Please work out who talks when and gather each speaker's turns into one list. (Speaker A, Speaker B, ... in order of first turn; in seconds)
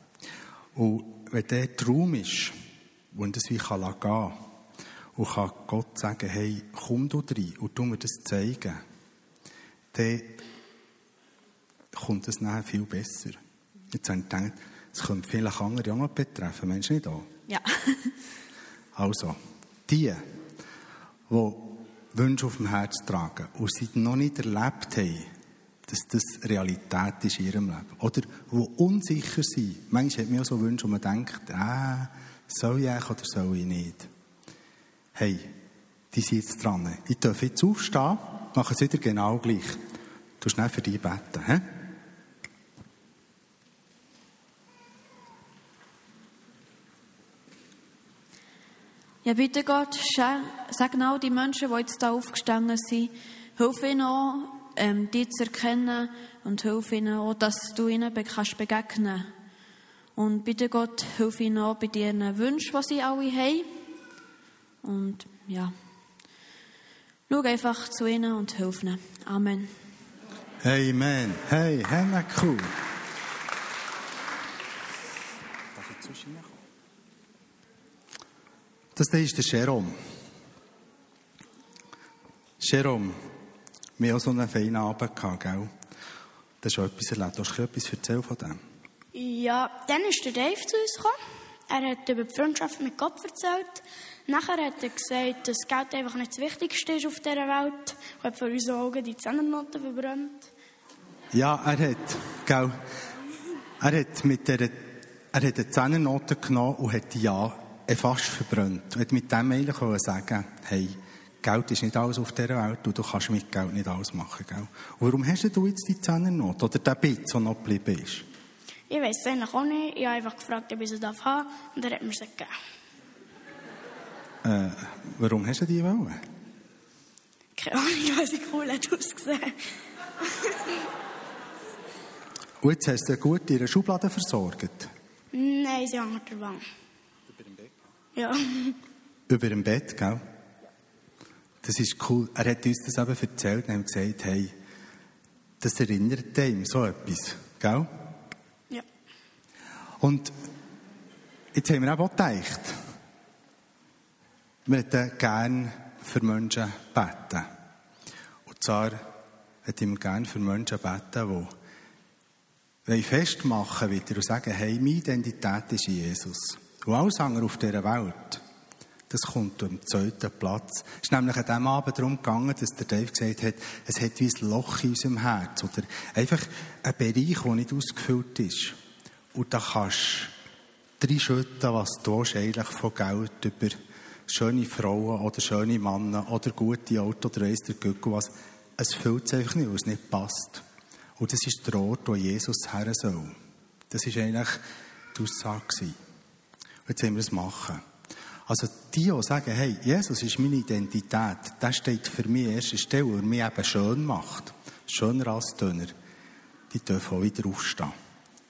Speaker A: 0.7-2.5, 3.1-4.4, 5.2-8.8, 9.9-10.4, 11.9-13.4, 13.9-17.3, 18.9-20.2, 21.3-25.3, 25.9-34.1, 35.1-35.5, 36.1-39.8, 40.4-41.7, 70.6-72.7, 75.7-76.6, 79.0-80.0, 82.6-83.2, 84.0-85.7, 86.6-88.6, 101.3-102.8, 103.8-118.2, 124.4-126.2, 132.6-134.9, 139.3-140.2, 141.6-144.5, 145.6-147.9, 150.0-150.3, 151.5-152.8, 154.7-157.5, 158.5-159.0, 159.6-161.5, 162.8-168.4, 169.1-178.8, 179.3-180.3, 181.0-190.6, 191.2-193.3, 193.9-196.0, 196.9-197.8, 198.5-205.9, 206.7-207.9
Speaker B: 17.5-18.1, 49.2-59.3, 60.1-63.7, 64.8-65.7, 67.3-69.7
Speaker C: 89.1-91.2, 91.7-100.5, 118.9-122.5, 127.6-129.5, 135.3-136.6, 138.1-138.8